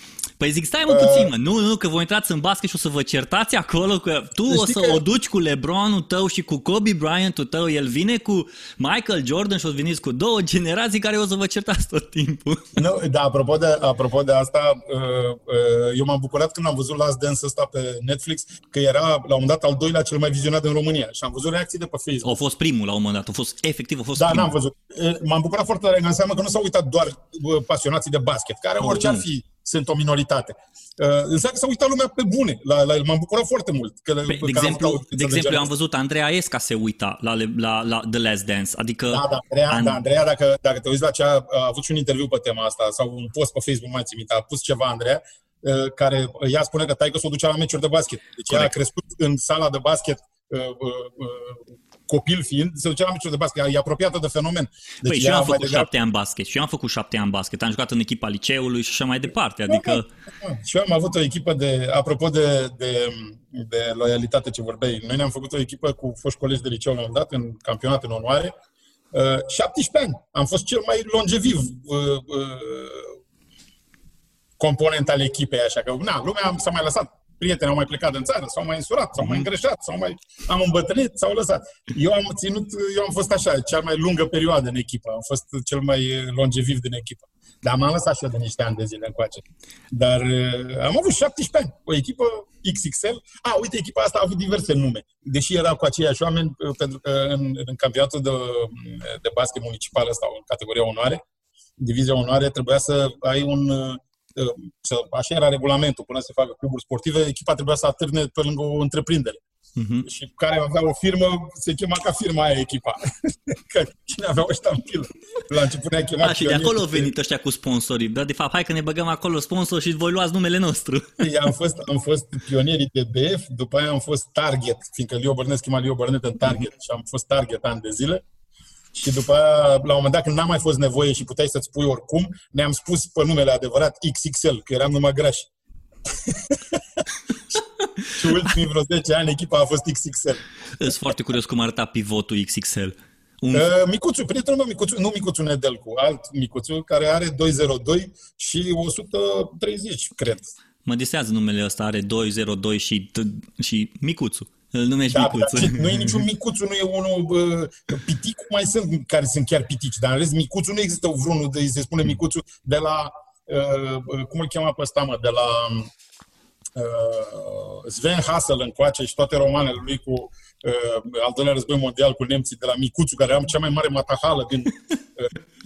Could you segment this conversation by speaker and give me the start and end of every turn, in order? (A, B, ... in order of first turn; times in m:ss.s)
0:00.4-0:12.8 A
0:00.9-0:01.3 B
0:04.5-0:05.0 B
0:12.8-0:22.3 B
0:22.2-0:24.5 A
0:24.2-0:35.7 B
0:28.8-0:29.2 A
0:34.3-0:40.0 A
0:39.1-0:55.9 B
0:55.0-1:00.1 A
0:59.7-1:08.5 B
1:09.1-1:13.2 B
1:14.6-1:41.2 B
1:19.2-1:19.5 A
1:41.8-1:49.4 B
1:49.8-1:50.1 A
1:50.0-1:57.1 B
1:56.2-2:01.3 A
2:01.2-2:08.2 B
2:08.9-2:15.5 B
2:16.1-2:17.6 B
2:18.1-2:20.4 B
2:20.8-2:23.7 A
2:23.5-2:30.5 B
2:30.8-2:36.2 A
2:35.1-2:45.9 B
2:46.8-2:55.3 B